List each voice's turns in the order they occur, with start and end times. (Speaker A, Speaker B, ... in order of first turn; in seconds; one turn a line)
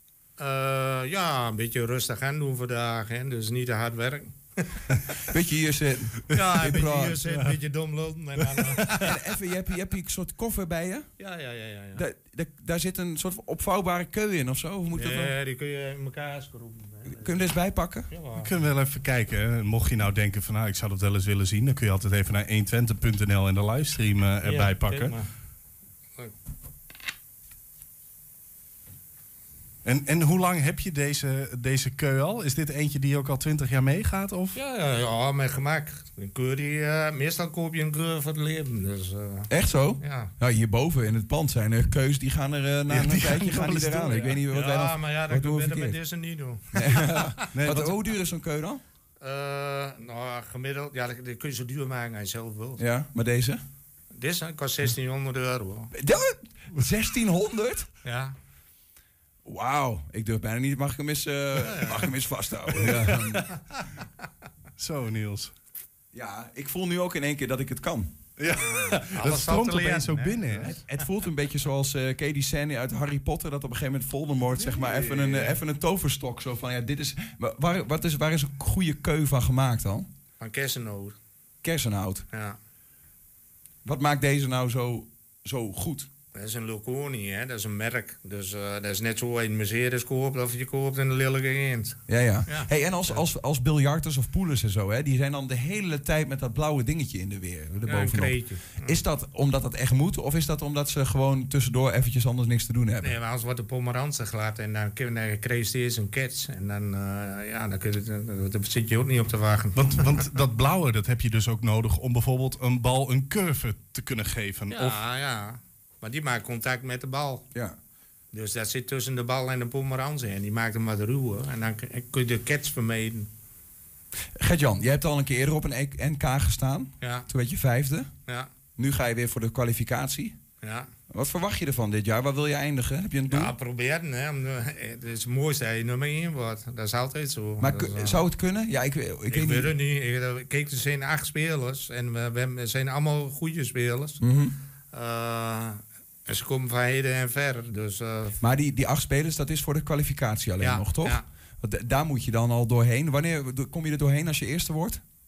Speaker A: 0.4-5.0
Speaker B: 5.2-7.2
Speaker A: 6.3-9.2
Speaker C: 7.3-7.6
Speaker B: 8.9-11.1
Speaker A: 11.2-12.0
Speaker B: 11.9-15.3
Speaker A: 14.9-17.4
Speaker B: 17.1-18.1
Speaker A: 18.1-18.5
Speaker C: 18.4-25.1
Speaker A: 24.4-25.3
Speaker C: 29.9-34.6
Speaker A: 34.5-39.5
Speaker B: 39.5-46.0
Speaker A: 40.0-40.3
Speaker C: 42.9-44.4
Speaker A: 44.5-47.5
Speaker B: 46.8-48.8
Speaker C: 47.5-48.0
Speaker A: 49.2-52.8
Speaker B: 52.8-53.6
Speaker A: 54.1-55.9
Speaker B: 55.9-57.9
Speaker A: 58.0-58.4
Speaker B: 59.5-63.6
Speaker A: 61.6-62.2
Speaker A: 62.8-63.6
Speaker C: 64.8-65.5
Speaker B: 66.1-68.1
Speaker C: 68.4-70.8
Speaker A: 68.7-70.8
Speaker B: 70.6-80.1
Speaker A: 75.1-75.5
Speaker A: 80.4-81.2
Speaker B: 81.6-82.2
Speaker A: 82.3-82.6
Speaker B: 83.8-86.1
Speaker A: 86.3-93.2
Speaker B: 92.1-103.2
Speaker A: 97.8-99.0
Speaker A: 103.0-109.9
Speaker C: 109.8-115.0
Speaker A: 114.7-117.4
Speaker A: 118.3-123.3
Speaker B: 124.4-128.1
Speaker A: 127.0-127.3
Speaker B: 128.8-130.4
Speaker A: 130.6-130.9
Speaker B: 131.1-133.5
Speaker A: 133.3-138.2
Speaker B: 137.6-139.7
Speaker A: 139.3-144.2
Speaker B: 144.2-144.5
Speaker A: 144.9-148.4
Speaker B: 148.4-155.0
Speaker A: 150.6-151.2